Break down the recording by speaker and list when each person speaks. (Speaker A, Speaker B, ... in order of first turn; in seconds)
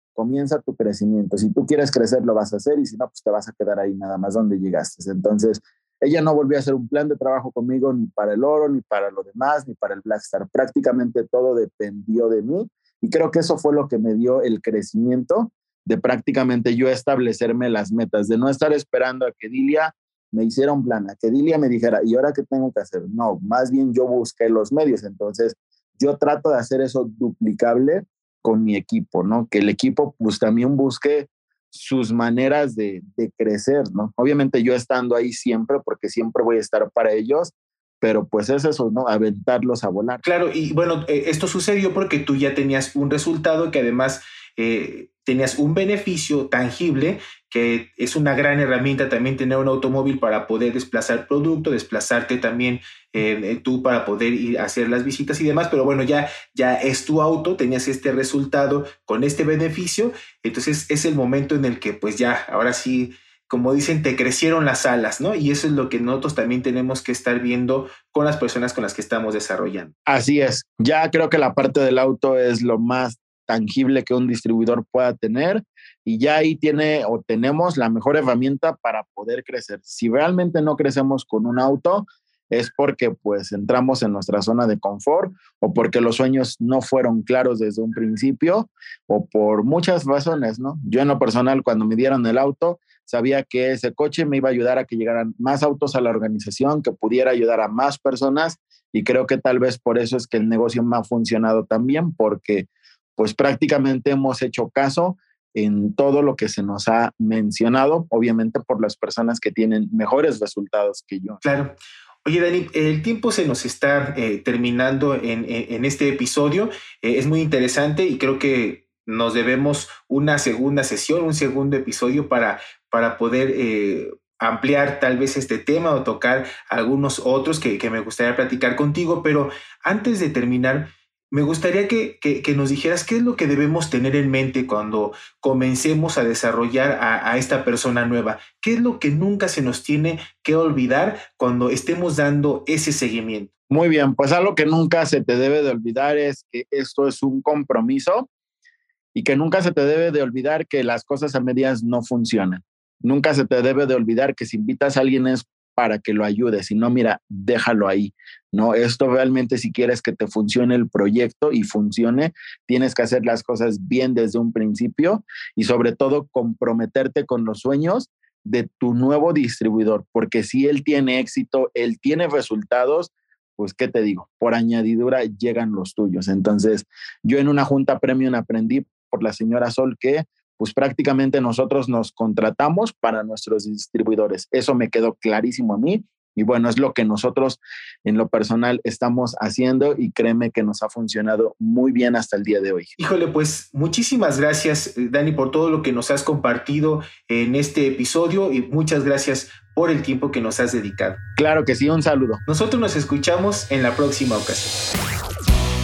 Speaker A: 0.1-40.2, 70.1-111.4, 143.7-148.3, 149.1-192.9, 201.4-202.4
Speaker B: 40.2-69.9, 111.4-143.5, 193.0-201.2, 202.5-204.8